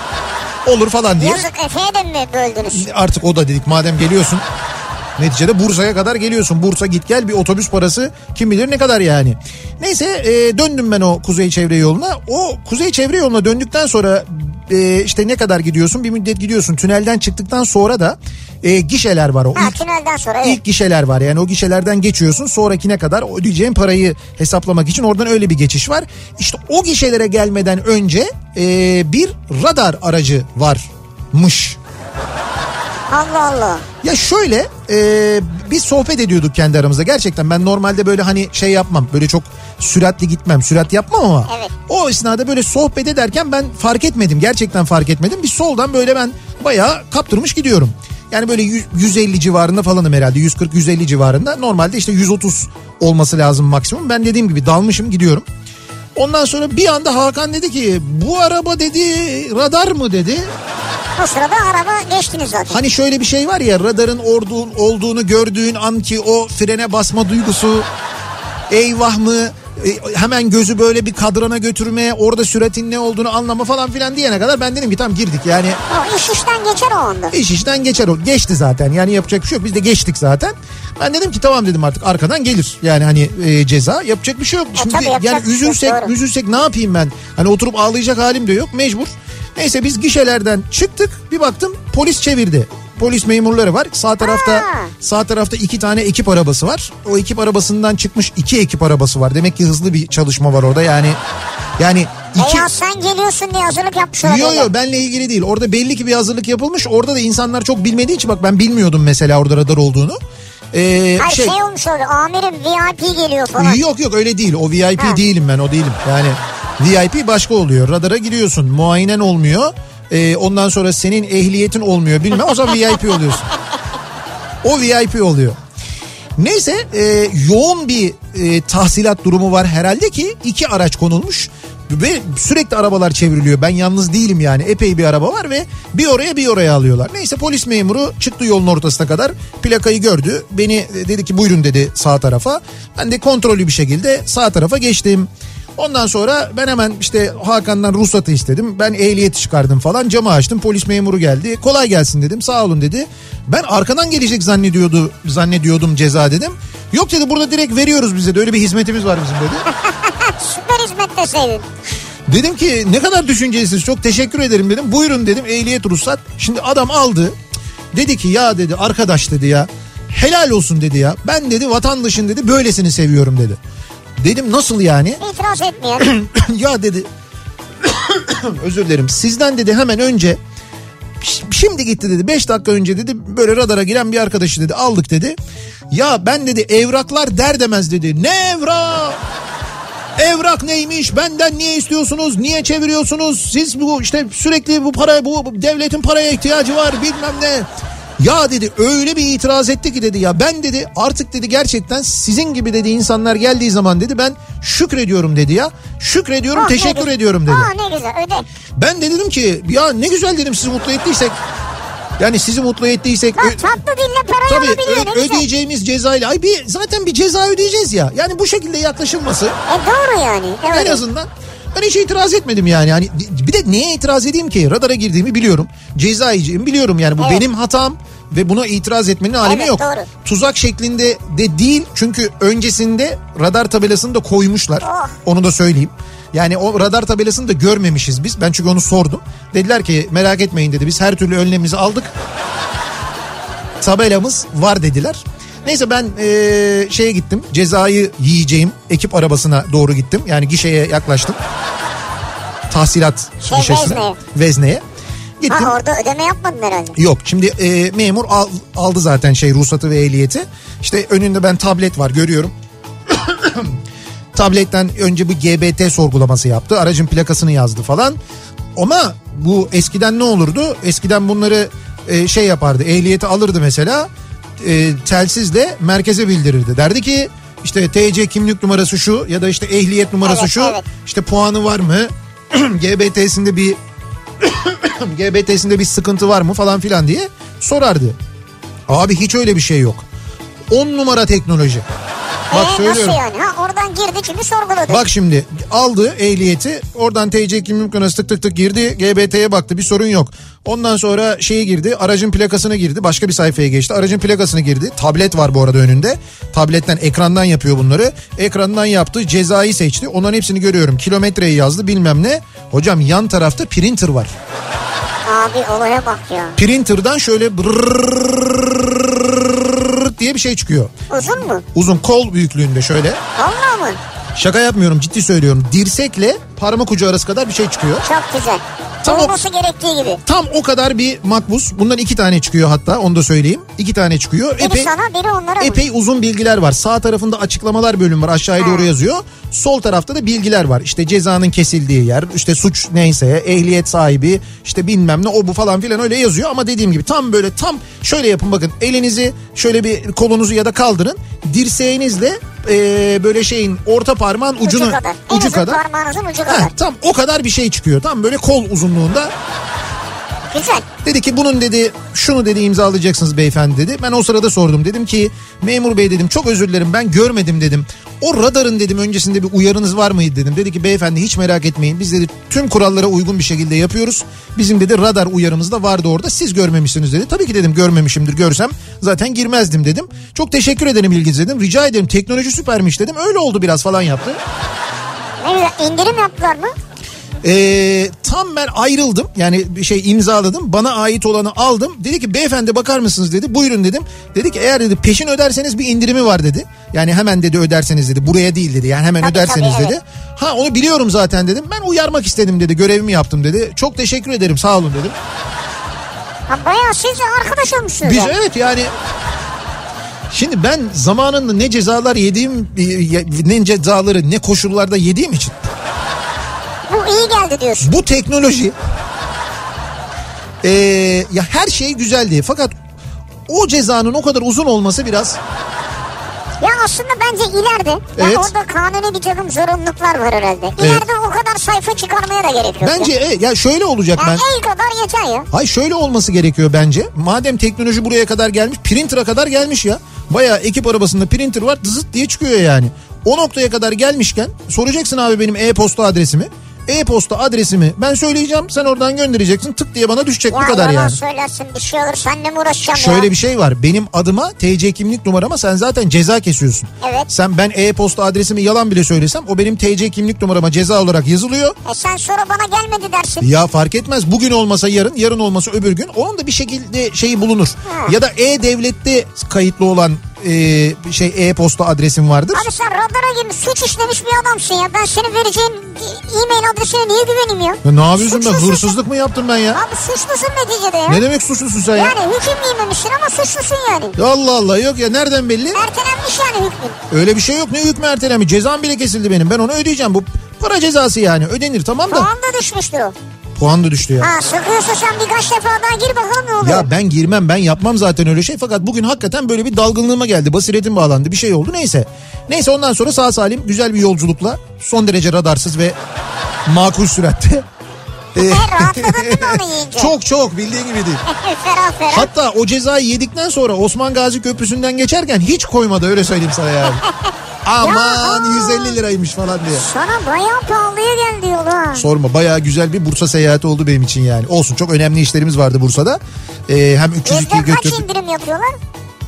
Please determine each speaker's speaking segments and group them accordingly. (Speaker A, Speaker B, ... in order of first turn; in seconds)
Speaker A: 0.7-1.5, 2.7-4.4, 5.2-19.8, 20.4-31.8, 34.0-55.4, 56.2-60.5, 62.7-67.9, 68.7-75.8, 77.3-101.2, 101.8-102.7, 104.2-110.2, 110.7-111.6, 113.6-123.5, 124.6-125.6, 126.4-159.7, 162.3-167.3, 167.9-173.6, 174.2-175.2, 176.0-177.1, 177.8-180.4, 181.2-185.3, 185.9-189.2, 190.2-197.7, 198.2-207.7, 208.8-211.4, 212.2-213.7, 214.5-219.6, 220.7-242.1, 243.8-251.4, 252.7-254.8, 255.4-255.7, 257.0-262.5, 263.1-263.8, 264.4-268.2, 268.8-274.1, 274.6-283.8, 284.4-288.2, 288.9-290.0, 290.7-291.9, 292.5-293.2, 294.9-314.3, 316.6-320.9, 321.7-323.2, 324.4-328.1, 329.0-329.3, 330.2-334.9, 335.6-355.8, 356.5-359.3, 361.0-384.4, 387.4-405.1, 408.0-408.9, 410.3-415.7, 417.8-418.8, 420.6-422.7, 423.5-425.4, 428.2-428.5, 430.8-431.1, 432.8-434.4, 435.5-451.2, 452.9-461.8, 463.4-472.7, 477.8-479.8, 481.1-482.2, 484.2-485.8, 487.1-492.3, 493.6-494.3, 496.6-506.0, 506.7-507.7, 508.4-511.2, 512.1-517.0, 517.6-519.9, 522.0-528.0
Speaker B: 1.2-2.9, 19.6-20.6, 33.1-33.9, 41.5-41.7, 61.2-62.8, 75.9-77.3, 84.8-86.1, 94.2-94.9, 102.3-104.7, 111.2-113.8, 159.7-161.7, 175.2-176.1, 206.6-208.4, 213.4-215.5, 219.7-221.0, 227.2-227.5, 229.4-230.1, 234.8-235.2, 253.5-254.2, 255.5-257.0, 280.2-280.9, 292.5-295.1, 315.2-316.6, 321.1-321.6, 323.4-324.0, 328.0-330.2, 334.6-335.8, 338.6-338.9, 354.6-356.7, 360.5-360.9, 385.4-386.8, 399.2-400.0, 406.5-408.4, 416.9-417.9, 426.6-433.1, 434.2-435.5, 450.5-453.3, 457.0-457.3, 461.9-463.5, 467.9-468.1, 472.5-478.9, 479.7-481.2, 481.9-484.2, 485.7-487.0, 492.1-493.1, 494.2-496.9, 508.4-510.1, 511.3-512.3, 517.1-519.0, 519.7-522.0, 527.2-528.8